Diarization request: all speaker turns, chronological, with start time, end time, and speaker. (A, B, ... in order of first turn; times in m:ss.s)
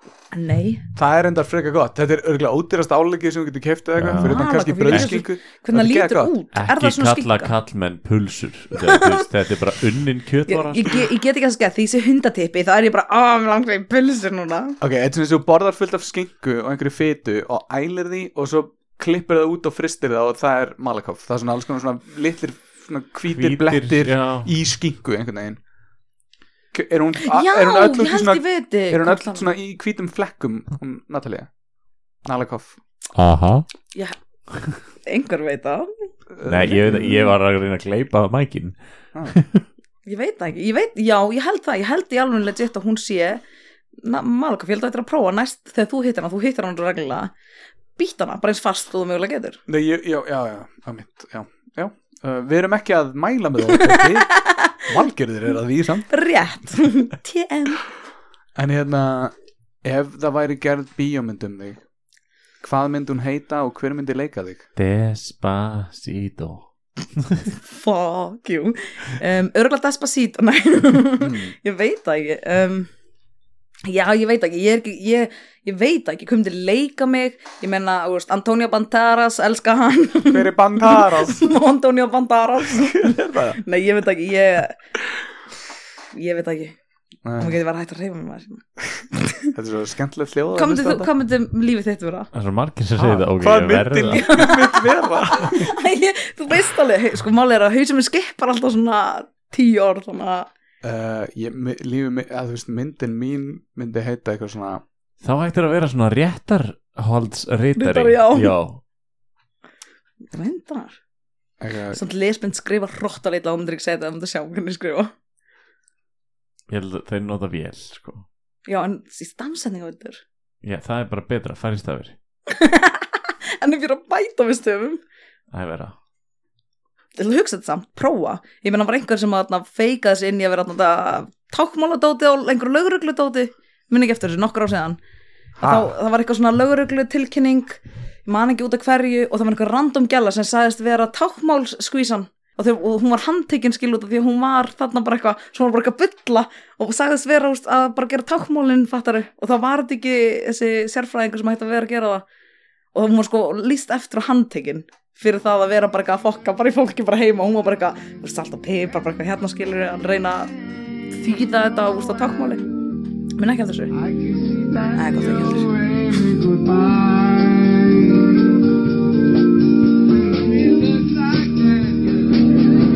0:00.3-0:00.9 A
0:00.9-0:06.3 B
0:04.0-0:05.2 C
0:04.1-0:07.5 A
0:06.5-0:11.0 C
0:08.8-0:09.2 A
0:10.5-0:14.8 A
0:14.8-0:25.6 B
0:23.3-0:24.5 C
0:26.7-0:31.5 B
0:27.2-0:29.5 A
0:32.2-0:32.8 B
0:33.1-0:33.6 C
0:33.9-0:34.2 A
0:35.0-0:36.1 A
0:36.3-0:37.2 B
0:36.4-0:39.6 C
0:40.0-0:43.4 A
0:44.0-0:47.3 A
0:48.0-0:49.6 A
0:49.7-0:56.1 B
0:53.7-0:54.9 A
0:56.1-0:57.8 A
0:58.6-0:59.3 B
0:59.8-1:01.8 B
1:02.6-1:04.6 B
1:04.8-1:06.6 C
1:07.2-1:07.5 C
1:07.7-1:12.9 A
1:11.2-1:11.5 B
1:13.8-1:24.8 A
1:20.2-1:21.4 B
1:22.6-1:23.6 B
1:26.1-1:26.7 A
1:27.2-1:27.6 B
1:27.4-1:29.5 A
1:29.5-1:31.1 B
1:30.5-1:32.3 A
1:32.3-1:34.3 C
1:33.0-1:35.7 B
1:34.1-1:40.5 A
1:40.8-1:44.8 B
1:45.2-1:48.8 C
1:47.8-1:48.6 A
1:50.3-1:51.0 A
1:51.6-1:52.0 B
1:51.9-1:55.1 A
1:56.7-1:58.2 C
1:58.7-2:00.2 A
2:00.6-2:02.1 C
2:02.5-2:05.0 A
2:05.5-2:05.9 C
2:07.2-2:15.0 A
2:15.6-2:15.9 B
2:15.6-2:32.2 A
2:32.9-2:40.5 A
2:41.1-2:42.6 A
2:43.4-2:43.9 A
2:44.9-2:46.3 A